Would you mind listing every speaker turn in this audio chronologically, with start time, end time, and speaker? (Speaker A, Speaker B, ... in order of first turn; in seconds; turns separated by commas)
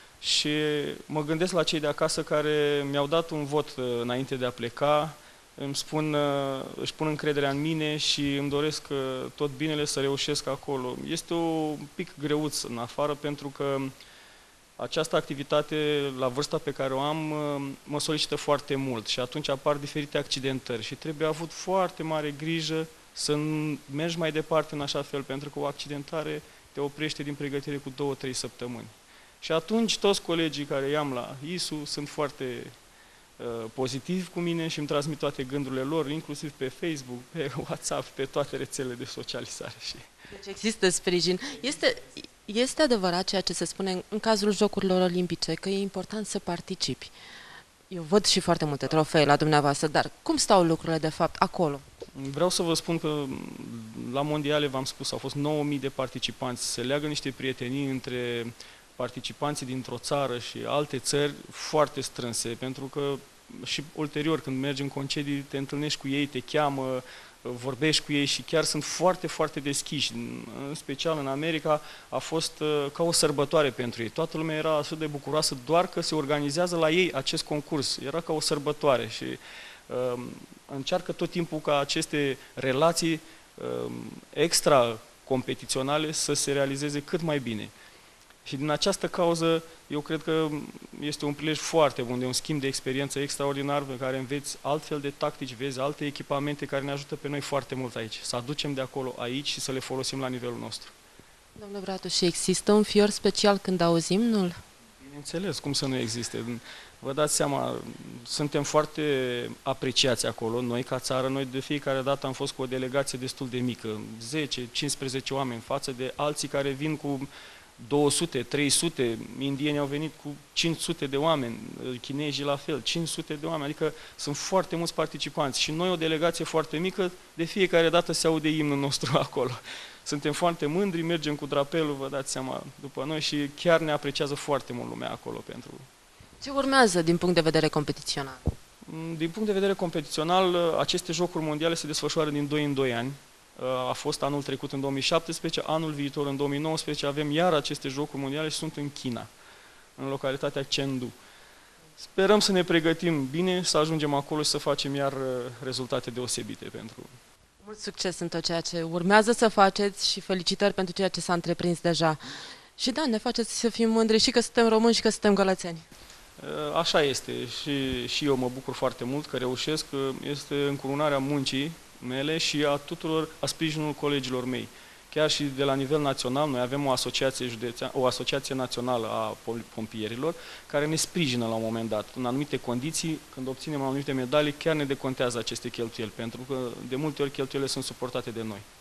Speaker A: 0.2-13.9, Speaker A: 14.8-32.7, Speaker A: 33.4-40.1, Speaker B: 40.3-47.1, Speaker B: 47.9-51.8, Speaker A: 52.1-87.7, Speaker A: 88.5-100.9, Speaker B: 101.6-104.6, Speaker A: 105.0-117.3, Speaker A: 117.8-135.9, Speaker B: 136.4-138.4, Speaker A: 138.9-149.3, Speaker A: 150.0-151.1, Speaker A: 152.0-157.1, Speaker B: 157.6-162.2, Speaker B: 162.8-165.9, Speaker A: 166.4-188.7